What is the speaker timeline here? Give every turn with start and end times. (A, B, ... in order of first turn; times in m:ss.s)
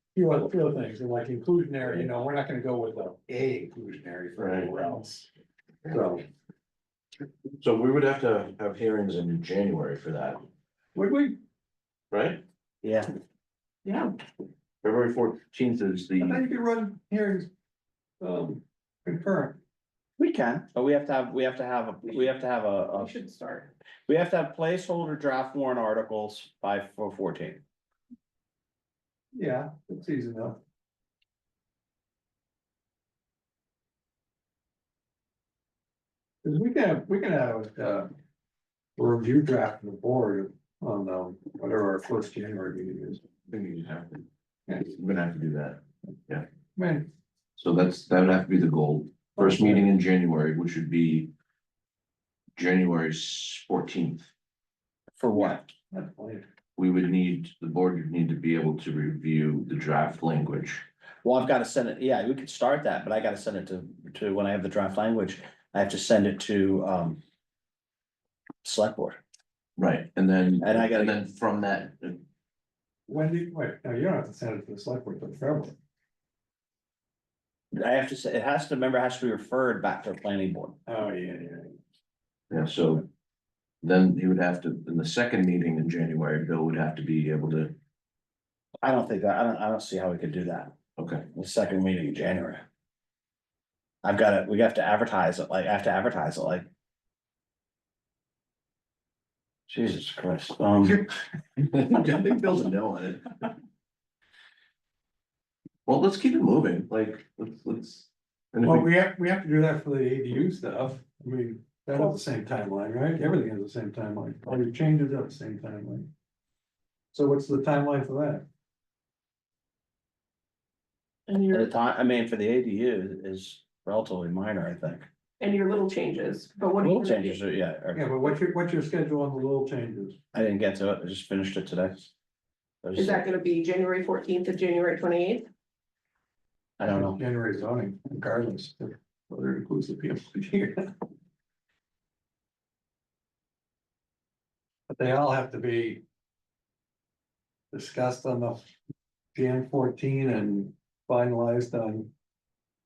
0:00.1-0:05.3 A
0:01.8-0:02.1 B
0:04.4-0:04.8 B
0:05.9-0:06.2 A
0:07.6-0:10.5 B
0:10.9-0:11.4 A
0:12.1-0:12.4 B
0:12.8-0:13.1 C
0:13.8-0:14.1 D
0:14.8-0:16.4 B
0:16.2-0:17.5 A
0:18.2-0:19.6 A
0:20.2-0:23.1 C
0:23.0-0:23.7 D
0:24.1-0:27.6 C
0:29.3-0:30.6 A
0:36.4-0:38.1 A
0:39.0-0:43.2 A
0:43.5-0:44.2 B
0:44.7-0:44.9 A
0:44.8-0:46.4 B
0:46.8-0:47.1 A
0:47.6-0:51.3 B
0:49.4-0:49.9 A
0:52.6-0:54.3 B
0:55.2-0:55.7 C
0:55.9-0:56.4 A
0:56.8-1:00.8 B
1:01.2-1:07.2 C
1:08.6-1:09.2 C
1:09.8-1:12.2 B
1:10.6-1:11.2 C
1:13.1-1:15.8 A
1:17.7-1:20.8 C
1:20.8-1:21.8 A
1:22.5-1:23.1 B
1:23.8-1:27.8 B
1:28.8-1:30.8 C
1:31.0-1:31.2 B
1:31.3-1:32.6 C
1:34.0-1:36.7 C
1:39.7-1:41.0 C
1:41.6-1:43.5 B
1:45.9-1:48.9 B
1:48.6-1:56.1 A
1:57.1-1:58.4 A
2:01.3-2:01.7 D
2:01.5-2:05.1 C
2:05.4-2:07.4 D
2:06.8-2:08.2 C
2:07.9-2:10.2 A
2:10.3-2:12.1 C
2:12.8-2:13.2 C
2:13.0-2:15.5 D
2:16.8-2:17.2 C
2:16.8-2:20.9 A
2:24.9-2:26.0 A
2:27.7-2:28.6 A
2:29.3-2:32.1 A